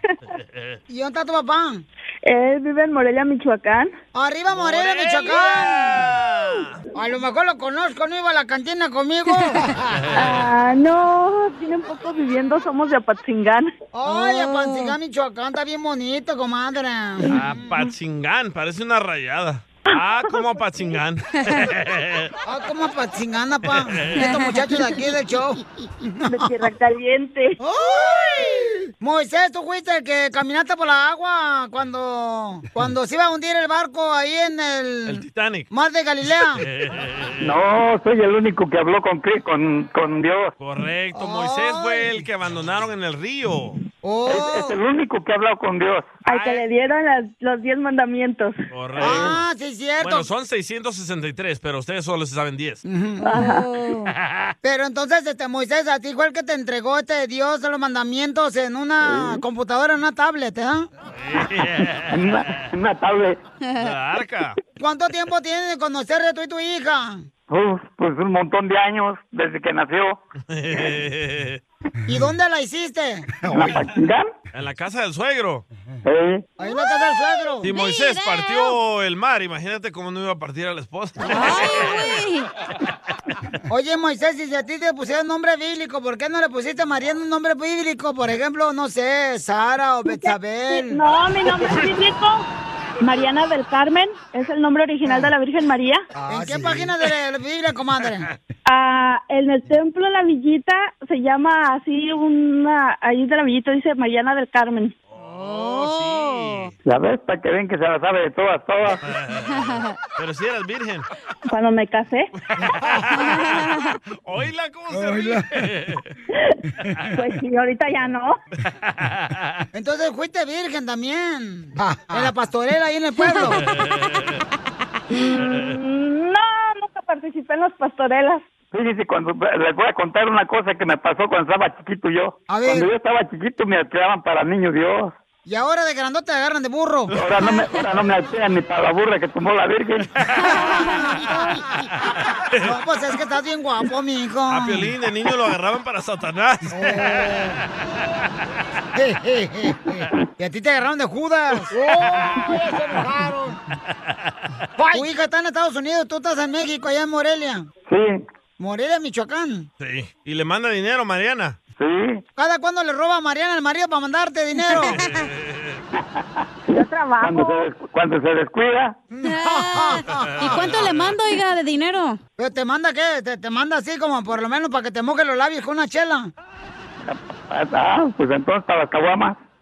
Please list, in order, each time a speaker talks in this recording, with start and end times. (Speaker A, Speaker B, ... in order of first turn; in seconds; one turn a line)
Speaker A: 0.9-1.8
Speaker B: 2.2-3.9
Speaker A: 4.1-6.0
Speaker C: 4.5-6.8
Speaker A: 6.9-10.2
Speaker B: 10.1-13.7
Speaker A: 13.9-17.4
Speaker D: 14.1-14.9
Speaker C: 17.2-22.3
Speaker B: 17.3-17.8
Speaker B: 19.9-20.4
Speaker A: 22.4-26.3
Speaker D: 24.1-24.6
Speaker B: 26.3-27.6
Speaker A: 27.6-36.6
Speaker C: 35.1-35.7
Speaker C: 36.6-37.4
Speaker E: 37.4-40.5
Speaker C: 40.6-43.8
Speaker A: 41.1-42.1
Speaker A: 44.0-44.8
Speaker E: 44.3-46.2
Speaker B: 46.2-48.5
Speaker C: 46.2-46.6
Speaker C: 48.7-49.4
Speaker A: 49.0-50.3
Speaker C: 50.0-52.8
Speaker A: 52.8-54.1
Speaker B: 53.2-53.6
Speaker A: 54.6-60.9
Speaker E: 59.1-59.3
Speaker C: 61.2-62.2
Speaker E: 62.1-63.4
Speaker D: 63.6-63.9
Speaker C: 63.8-64.6
Speaker A: 64.8-67.2
Speaker E: 67.5-70.2
Speaker C: 70.5-71.6
Speaker A: 72.0-73.8
Speaker E: 73.5-74.2
Speaker C: 74.5-75.6
Speaker E: 76.0-76.4
Speaker A: 76.6-77.7
Speaker D: 76.6-78.8
Speaker C: 77.6-82.2
Speaker D: 81.2-82.5
Speaker A: 83.7-91.0
Speaker B: 90.1-92.5
Speaker B: 93.0-96.0
Speaker A: 96.2-98.3
Speaker B: 98.7-104.9
Speaker C: 105.1-106.7
Speaker D: 105.2-106.7
Speaker E: 106.8-109.0
Speaker C: 109.0-111.1
Speaker D: 109.5-109.9
Speaker B: 111.5-112.3
Speaker C: 112.7-113.7
Speaker D: 113.4-113.9
Speaker C: 114.2-116.0
Speaker A: 114.9-115.5
Speaker B: 117.1-118.4
Speaker C: 118.7-119.6
Speaker A: 119.7-123.6
Speaker C: 123.8-124.0
Speaker B: 125.1-128.4
Speaker E: 128.7-135.2
Speaker A: 132.5-132.9
Speaker A: 135.4-137.1
Speaker E: 137.1-140.1
Speaker A: 140.5-141.4
Speaker A: 142.6-144.9
Speaker C: 144.5-147.5
Speaker A: 146.7-147.6
Speaker A: 148.9-153.6
Speaker A: 154.9-157.7
Speaker E: 157.9-158.2
Speaker A: 158.6-159.7
Speaker C: 159.8-161.6
Speaker E: 161.8-162.2
Speaker A: 162.4-165.0
Speaker C: 164.7-165.8
Speaker E: 166.7-168.9
Speaker B: 166.7-167.7
Speaker A: 169.1-170.9
Speaker D: 169.2-172.2
Speaker C: 170.1-171.2
Speaker A: 172.4-176.3
Speaker E: 177.1-179.4